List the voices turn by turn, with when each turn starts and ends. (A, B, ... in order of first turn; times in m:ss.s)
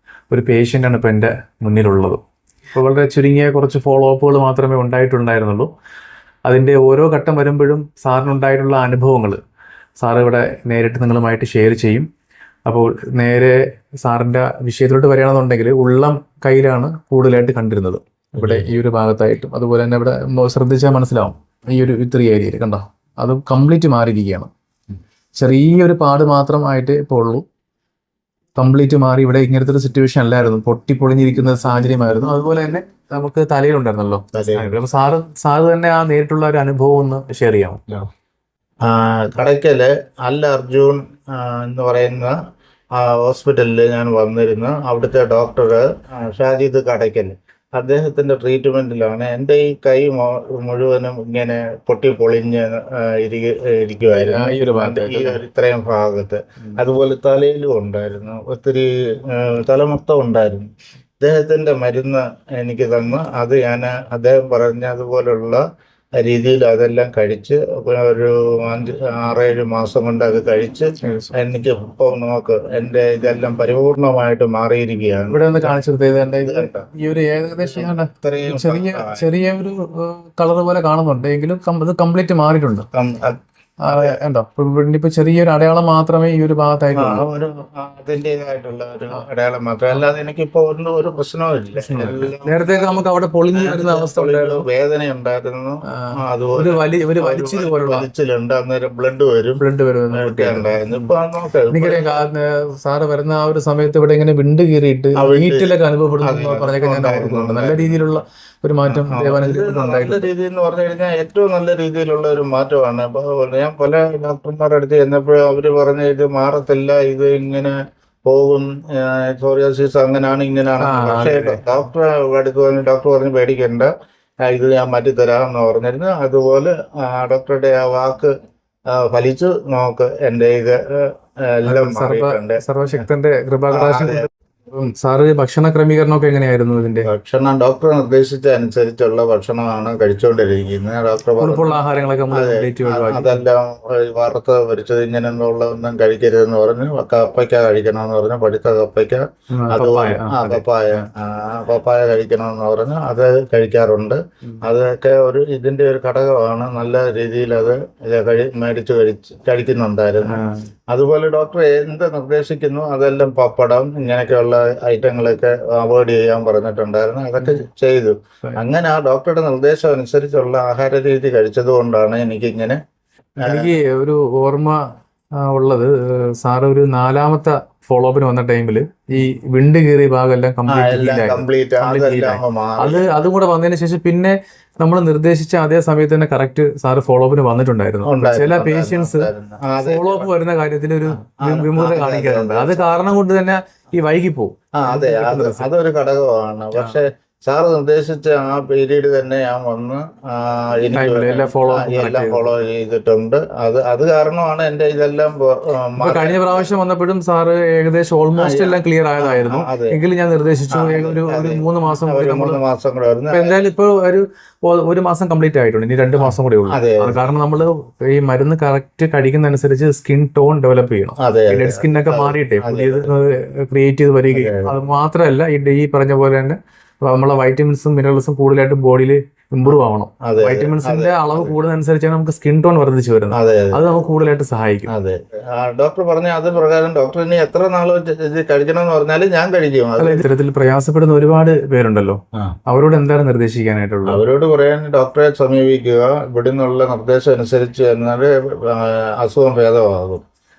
0:00.3-0:02.2 A
0:02.7-0:05.7 A
0:06.5-0:09.4 A
0:10.0-0:12.1 A
0:12.7-0:24.5 A
0:18.4-0:18.7 B
0:25.4-0:27.4 A
0:28.6-0:37.8 A
0:34.3-0:34.7 B
0:38.8-0:42.4 B
0:43.0-1:05.6 B
0:54.2-0:55.4 A
1:06.2-1:15.8 B
1:11.0-1:11.3 A
1:15.3-1:22.9 A
1:16.4-1:16.9 B
1:17.7-1:19.3 B
1:22.9-1:23.4 B
1:23.8-1:27.2 A
1:23.9-1:24.2 B
1:26.9-1:33.0 B
1:31.9-1:34.7 A
1:33.6-1:39.6 B
1:35.9-1:38.1 A
1:39.6-1:41.1 A
1:40.1-1:42.2 B
1:41.7-1:50.3 A
1:45.2-1:45.7 B
1:46.2-1:47.9 B
1:48.9-1:57.7 B
1:58.2-2:03.9 B
2:00.8-2:01.6 A
2:04.4-2:08.3 B
2:08.9-2:13.1 B
2:11.7-2:17.1 A
2:13.7-2:14.3 B
2:17.1-2:21.8 B
2:21.4-2:23.4 A
2:22.3-2:52.8 B
2:29.5-2:31.1 A
2:40.3-2:40.7 A
2:53.4-2:53.7 B
2:53.4-2:54.8 A
2:55.4-3:15.7 A
3:00.7-3:03.1 B
3:08.0-3:10.3 B
3:11.1-3:12.8 B
3:14.8-3:26.7 B
3:20.9-3:22.5 A
3:26.0-3:32.6 A
3:28.4-3:30.0 B
3:30.7-3:33.6 B
3:33.3-3:54.9 A
3:36.2-3:37.2 B
3:41.2-3:43.1 B
3:44.3-3:44.7 B
3:50.2-3:51.5 B
3:53.3-3:53.8 B
3:54.9-4:00.3 B
4:00.0-4:04.2 A
4:04.1-4:10.2 B